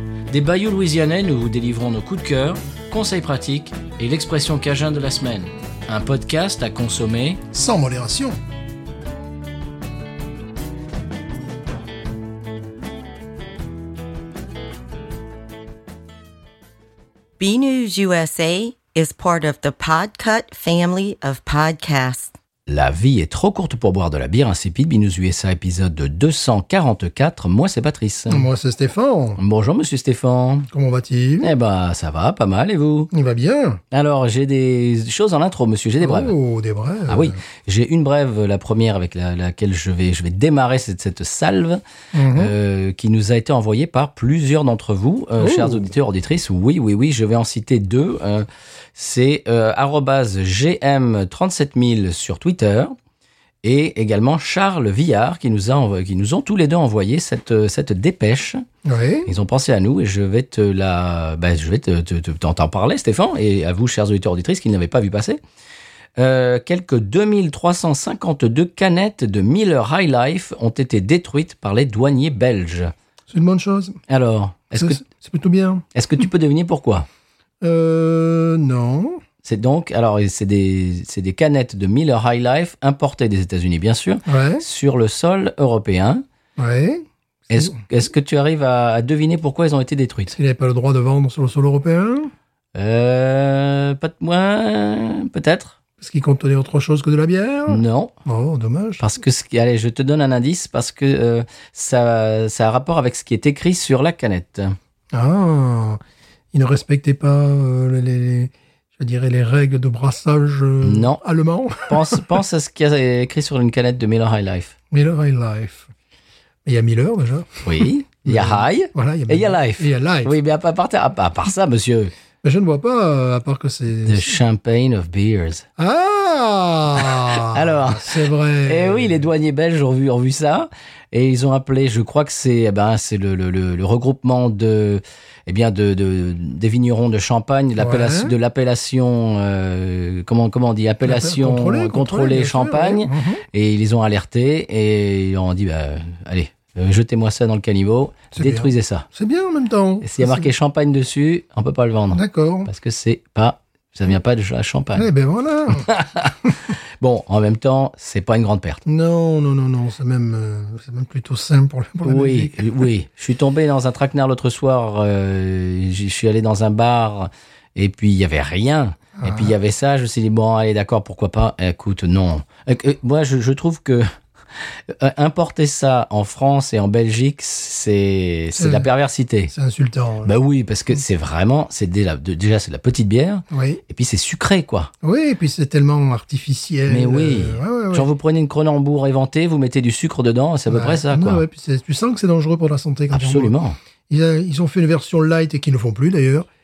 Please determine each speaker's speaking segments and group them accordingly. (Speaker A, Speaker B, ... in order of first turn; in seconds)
Speaker A: 0.3-7.4, 22.7-28.5, 29.4-30.7, 31.4-33.1, 33.9-36.4, 37.1-53.0, 53.6-58.6, 59.3-65.4, 66.2-72.9, 74.1-75.0, 75.9-77.1, 79.4-86.2, 87.5-90.3, 92.8-95.8, 97.7-98.1, 99.0-104.8, 110.8-111.2, 111.9-114.7, 117.6-122.1, 124.1-125.7, 127.0-149.1, 150.0-155.1, 155.7-158.8, 162.0-179.5, 180.2-184.9, 186.9-191.4, 193.1-193.8
Speaker B: 7.5-8.4, 28.3-29.4, 30.7-31.5, 33.1-33.8, 36.0-37.4, 42.1-42.5, 45.4-45.9, 58.9-59.3, 73.3-74.0, 74.8-75.8, 77.6-79.2, 84.3-84.7, 86.6-87.8, 90.3-92.3, 96.0-99.0, 105.1-106.0, 106.5-112.4, 114.9-115.9, 116.7-120.3, 122.4-124.4, 125.8-129.2, 137.8-138.3, 141.0-143.4, 148.3-150.5, 152.1-152.7, 155.0-155.9, 158.9-162.9, 169.2-169.6, 178.6-178.9, 179.5-180.3, 183.5-183.8, 185.0-188.1, 190.7-193.6, 194.1-196.5
Speaker C: 17.4-22.3